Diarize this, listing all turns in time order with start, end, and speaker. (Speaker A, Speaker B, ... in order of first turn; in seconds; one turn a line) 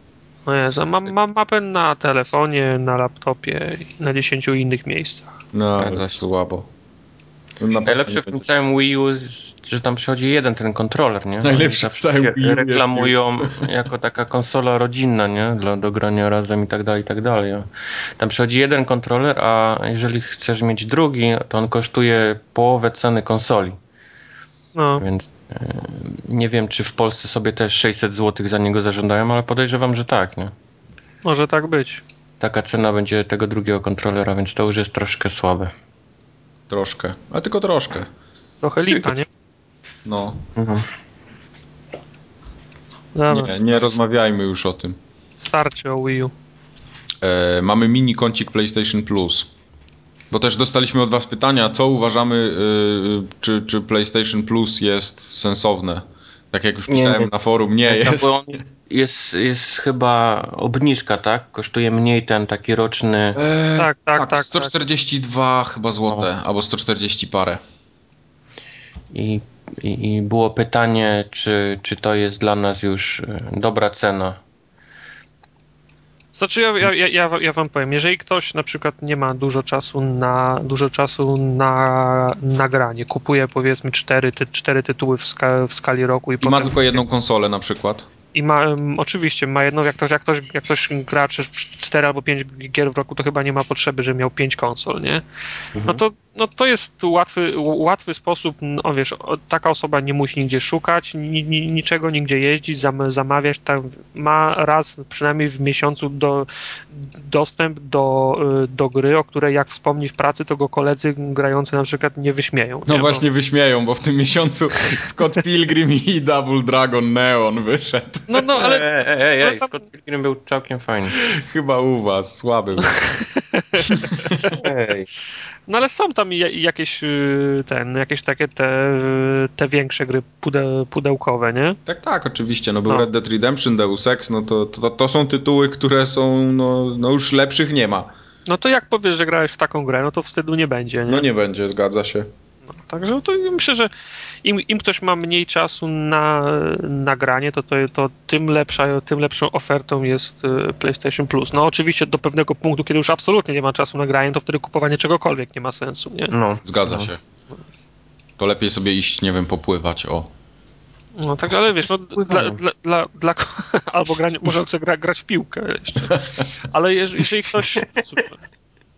Speaker A: 0.5-5.3
Speaker B: 5.5-6.7
Speaker C: 5.8-6.2
Speaker B: 7.6-8.4
Speaker C: 7.8-23.8
Speaker B: 11.4-13.7
Speaker A: 24.7-25.0
Speaker C: 25.0-30.5
Speaker A: 31.2-32.0
Speaker C: 32.4-35.7
Speaker B: 36.7-38.1
Speaker A: 38.6-39.3
Speaker B: 40.0-40.4
Speaker C: 40.5-40.9
Speaker A: 43.1-43.6
Speaker B: 43.3-45.0
Speaker A: 45.4-46.3
Speaker B: 47.2-49.5
Speaker B: 50.3-58.4
Speaker C: 56.9-57.3
Speaker C: 57.8-63.4
Speaker B: 63.4-67.6
Speaker A: 63.8-64.7
Speaker C: 69.1-74.4
Speaker A: 76.3-86.9
Speaker B: 86.4-88.0
Speaker A: 88.3-95.2
Speaker C: 95.7-96.0
Speaker A: 95.8-113.2
Speaker B: 112.9-118.5
Speaker A: 118.3-118.8
Speaker C: 118.5-121.2
Speaker A: 119.4-119.7
Speaker B: 121.2-123.0
Speaker A: 123.5-123.9
Speaker B: 123.8-124.5
Speaker C: 124.5-125.1
Speaker A: 125.7-131.8
Speaker B: 131.8-138.1
Speaker A: 138.5-141.3
Speaker B: 141.1-142.3
Speaker A: 142.8-143.9
Speaker A: 144.4-156.3
Speaker C: 156.3-157.1
Speaker B: 156.6-157.2
Speaker B: 158.4-160.3
Speaker A: 161.2-168.4
Speaker C: 162.2-162.6